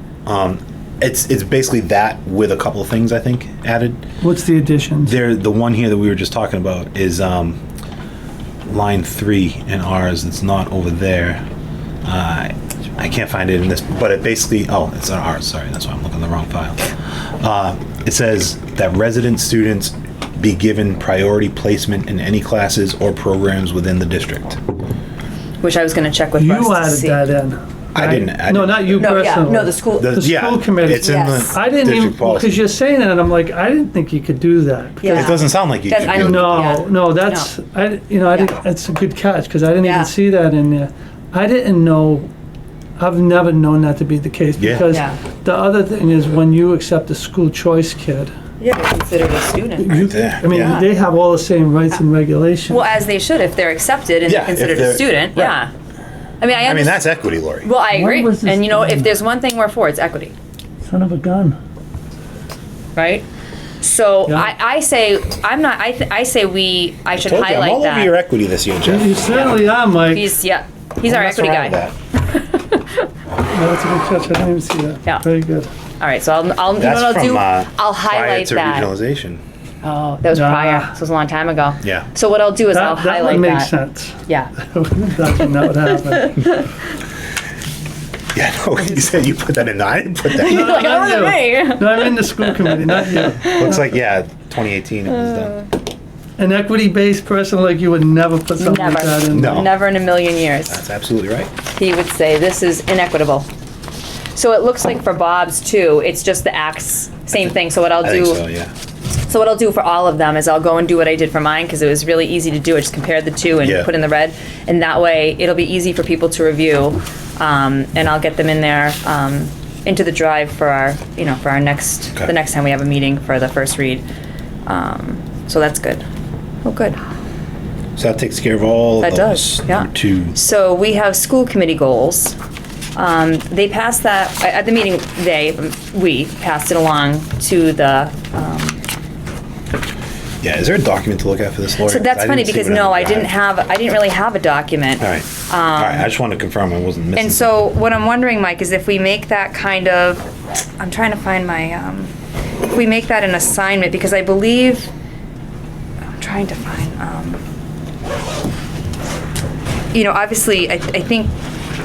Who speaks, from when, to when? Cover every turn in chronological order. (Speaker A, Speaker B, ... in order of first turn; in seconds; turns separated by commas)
Speaker A: 0.2-4.0, Speaker B: 4.2-5.1, Speaker A: 5.0-7.6, Speaker A: 8.7-11.4, Speaker A: 12.0-16.9, Speaker A: 17.4-24.6, Speaker C: 25.6-27.2, Speaker B: 26.4-35.3, Speaker A: 27.9-29.2, Speaker C: 28.9-30.2, Speaker A: 30.0-32.6, Speaker C: 30.9-31.6, Speaker C: 35.0-37.5, Speaker A: 35.1-36.8, Speaker B: 36.0-42.3, Speaker C: 39.8-40.1, Speaker B: 43.0-48.3, Speaker A: 44.6-44.9, Speaker C: 44.9-45.2, Speaker C: 48.6-50.9, Speaker B: 49.8-52.9, Speaker A: 49.9-50.8, Speaker C: 52.7-55.7, Speaker A: 54.2-55.6, Speaker C: 56.4-57.1, Speaker A: 56.6-57.7, Speaker C: 57.6-60.3, Speaker B: 57.9-59.1, Speaker B: 60.9-61.6, Speaker C: 63.0-63.2, Speaker C: 63.8-68.1, Speaker B: 64.3-64.5, Speaker A: 67.2-69.5, Speaker B: 68.8-70.3, Speaker C: 69.3-73.0, Speaker A: 71.0-71.9, Speaker B: 73.5-75.7, Speaker C: 76.0-78.9, Speaker A: 76.8-79.4, Speaker C: 79.8-83.7, Speaker B: 80.3-81.0, Speaker A: 81.8-82.1, Speaker B: 82.7-86.5, Speaker C: 84.3-84.5, Speaker C: 85.9-86.6, Speaker A: 88.3-91.1, Speaker C: 90.3-93.8, Speaker B: 90.4-93.8, Speaker A: 93.4-95.6, Speaker C: 95.2-95.7, Speaker B: 96.4-99.6, Speaker C: 98.6-100.8, Speaker A: 99.3-99.7, Speaker A: 100.7-101.5, Speaker C: 101.8-103.5, Speaker C: 104.3-108.4, Speaker A: 108.0-108.7, Speaker C: 109.2-124.0, Speaker A: 113.6-113.9, Speaker C: 124.7-126.0, Speaker C: 126.6-127.0, Speaker A: 128.0-130.3, Speaker C: 129.0-132.3, Speaker C: 132.9-138.8, Speaker A: 140.4-143.3, Speaker C: 141.8-146.1, Speaker A: 145.0-147.4, Speaker C: 147.2-150.3, Speaker C: 150.8-152.1, Speaker C: 152.7-154.9, Speaker C: 156.2-157.4, Speaker C: 159.9-161.3